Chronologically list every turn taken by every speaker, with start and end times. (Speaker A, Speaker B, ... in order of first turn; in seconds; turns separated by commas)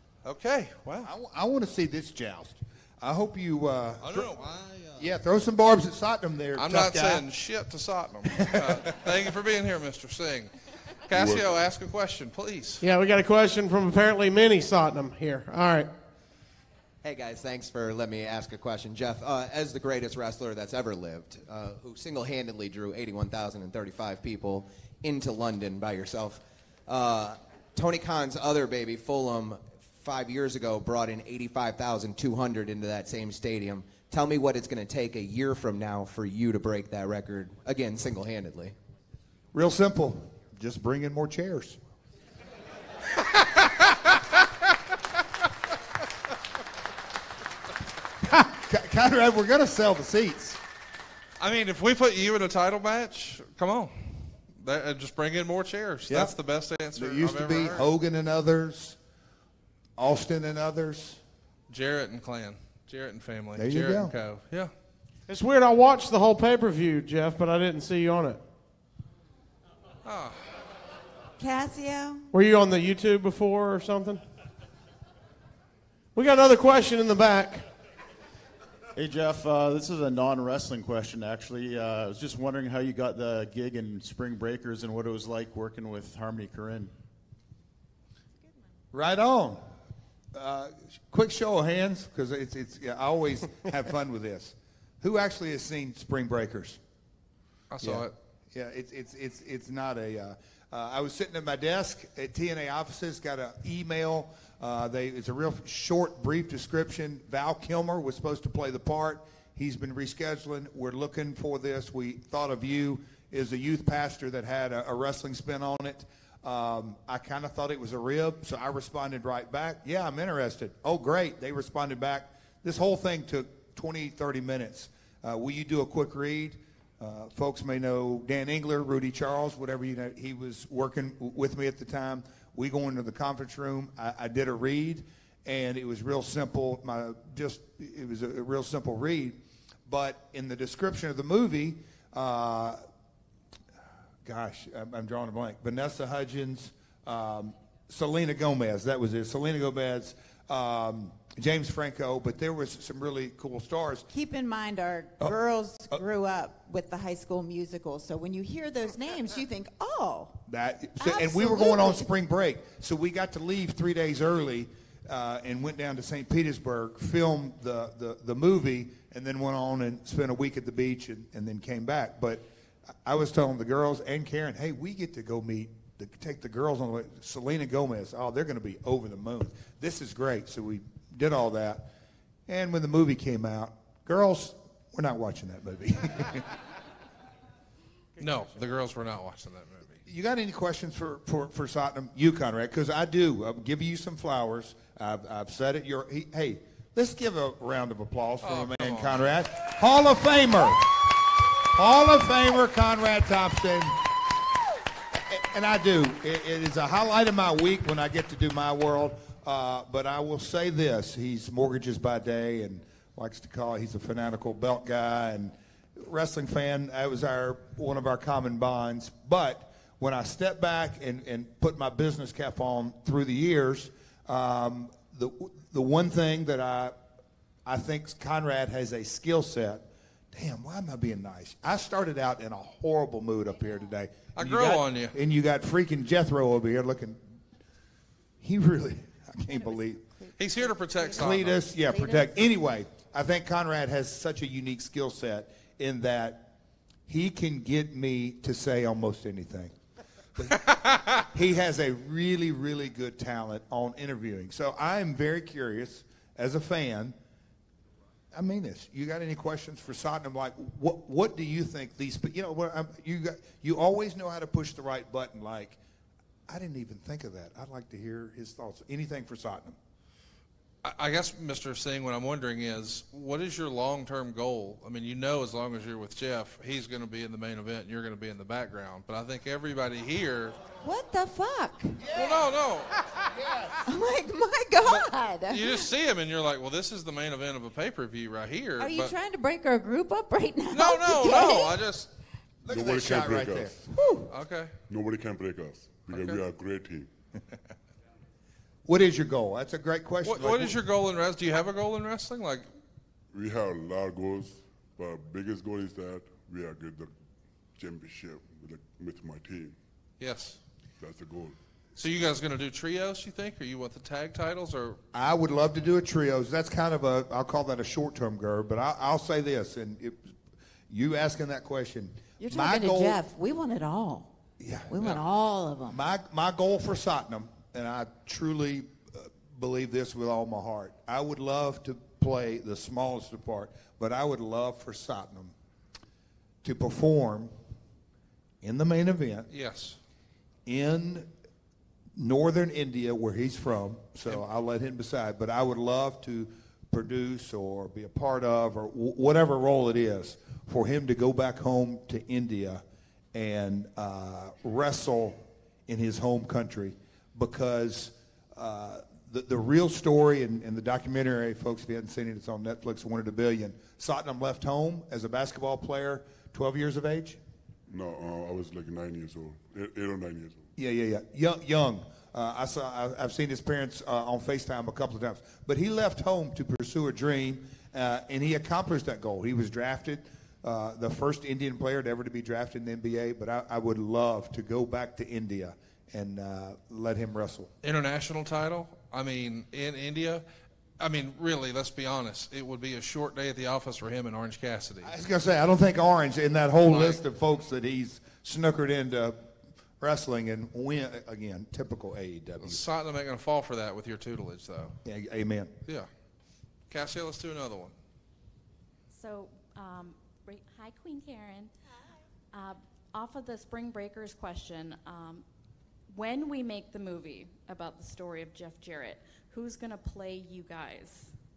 Speaker A: 0.2-1.1, Speaker B: 1.0-4.3, Speaker A: 4.0-5.0, Speaker B: 5.0-7.2, Speaker A: 6.6-10.5, Speaker B: 8.4-9.1, Speaker A: 11.1-12.8, Speaker C: 11.1-11.5, Speaker D: 12.8-15.9, Speaker E: 17.0-38.7, Speaker B: 39.5-41.8, Speaker A: 43.3-44.2, Speaker B: 48.2-50.6, Speaker A: 51.4-57.9, Speaker B: 56.1-56.3, Speaker B: 57.0-59.0, Speaker B: 60.0-61.2, Speaker A: 61.7-64.7, Speaker B: 63.6-64.1, Speaker D: 65.3-68.4, Speaker A: 70.0-70.5, Speaker F: 71.4-72.3, Speaker D: 72.3-74.2, Speaker D: 76.2-77.7, Speaker G: 79.0-86.9, Speaker B: 88.9-89.6, Speaker B: 90.3-96.8, Speaker A: 97.7-98.1, Speaker B: 97.8-142.8, Speaker B: 144.2-154.1, Speaker F: 154.1-160.4, Speaker B: 160.5-172.4, Speaker F: 161.0-162.1, Speaker B: 173.1-181.9, Speaker B: 182.5-186.5, Speaker A: 188.2-190.0, Speaker B: 190.1-201.1, Speaker A: 198.4-199.3, Speaker B: 201.7-204.1, Speaker B: 205.3-227.0, Speaker B: 227.7-237.2, Speaker A: 234.4-235.2, Speaker B: 238.4-240.0, Speaker F: 240.2-242.3, Speaker A: 240.4-241.6, Speaker B: 241.2-246.5, Speaker B: 247.1-249.7, Speaker B: 250.4-250.6, Speaker A: 250.6-251.3, Speaker B: 251.2-257.2, Speaker B: 258.3-265.8, Speaker B: 266.5-269.8, Speaker A: 270.8-280.6, Speaker F: 280.8-282.4, Speaker B: 282.0-282.4, Speaker A: 282.1-282.9, Speaker B: 283.3-283.8, Speaker F: 283.8-285.9, Speaker A: 284.9-289.1, Speaker F: 288.8-291.8, Speaker A: 290.7-292.1, Speaker B: 292.6-293.8, Speaker C: 292.7-293.8, Speaker F: 293.9-294.3, Speaker A: 294.3-294.7, Speaker C: 294.9-297.1, Speaker A: 296.1-296.4, Speaker B: 298.9-300.8, Speaker A: 300.2-302.7, Speaker C: 303.3-307.1, Speaker C: 307.8-309.8, Speaker A: 310.2-310.6, Speaker C: 311.0-311.6, Speaker A: 312.0-315.0, Speaker B: 315.1-320.3, Speaker B: 320.9-323.2, Speaker F: 322.4-324.3, Speaker B: 324.6-325.2, Speaker F: 324.9-326.0, Speaker B: 325.9-335.5, Speaker B: 336.6-337.5, Speaker B: 338.6-339.5, Speaker A: 339.5-340.0, Speaker B: 340.7-341.3, Speaker B: 342.2-352.8, Speaker B: 353.3-367.4, Speaker C: 367.9-370.6, Speaker B: 370.8-387.7, Speaker A: 387.8-390.4, Speaker A: 391.0-395.1, Speaker B: 395.0-399.4, Speaker A: 396.9-397.2, Speaker B: 400.0-402.8, Speaker A: 402.6-404.9, Speaker B: 405.0-405.7, Speaker A: 406.9-407.9, Speaker H: 409.1-411.7, Speaker H: 412.5-415.4, Speaker H: 416.1-421.3